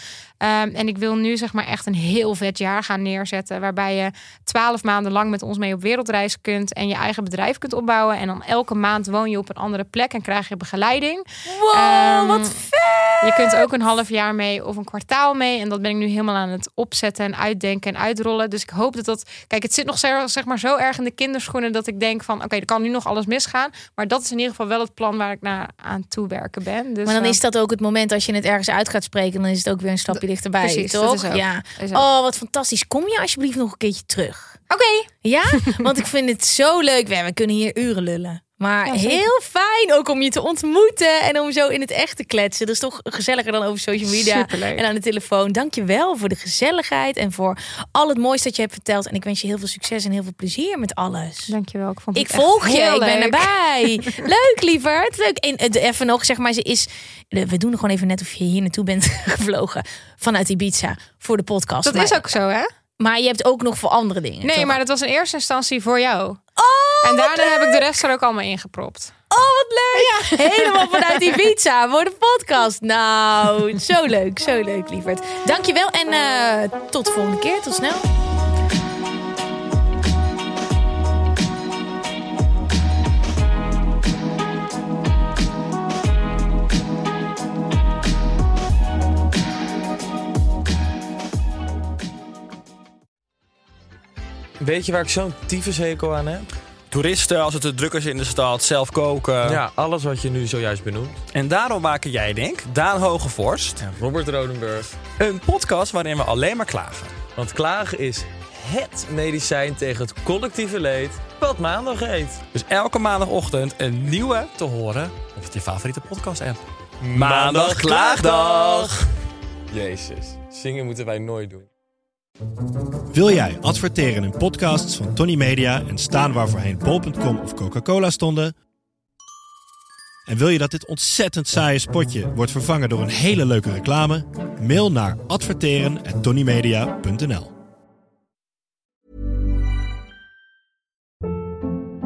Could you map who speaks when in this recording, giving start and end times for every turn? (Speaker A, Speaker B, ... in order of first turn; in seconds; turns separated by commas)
Speaker A: 0.4-12.6, Speaker B: 11.5-13.7, Speaker A: 13.2-27.4, Speaker B: 27.1-34.6, Speaker A: 30.1-32.0, Speaker A: 34.7-35.8, Speaker B: 35.2-51.5, Speaker A: 38.9-39.2, Speaker A: 44.1-44.9, Speaker A: 51.5-54.2, Speaker B: 52.1-62.2, Speaker A: 61.8-62.6, Speaker B: 63.0-64.8, Speaker A: 64.4-66.4, Speaker B: 66.6-67.9, Speaker A: 67.0-69.1, Speaker B: 69.3-78.0, Speaker A: 69.9-71.4, Speaker C: 94.6-96.5, Speaker D: 96.9-99.6, Speaker C: 99.4-101.2, Speaker D: 101.3-103.8, Speaker C: 103.8-105.0, Speaker D: 105.2-107.2, Speaker C: 107.3-112.4, Speaker D: 112.5-118.9, Speaker C: 117.0-118.9, Speaker C: 119.7-121.7, Speaker E: 123.1-128.5, Speaker E: 130.3-137.5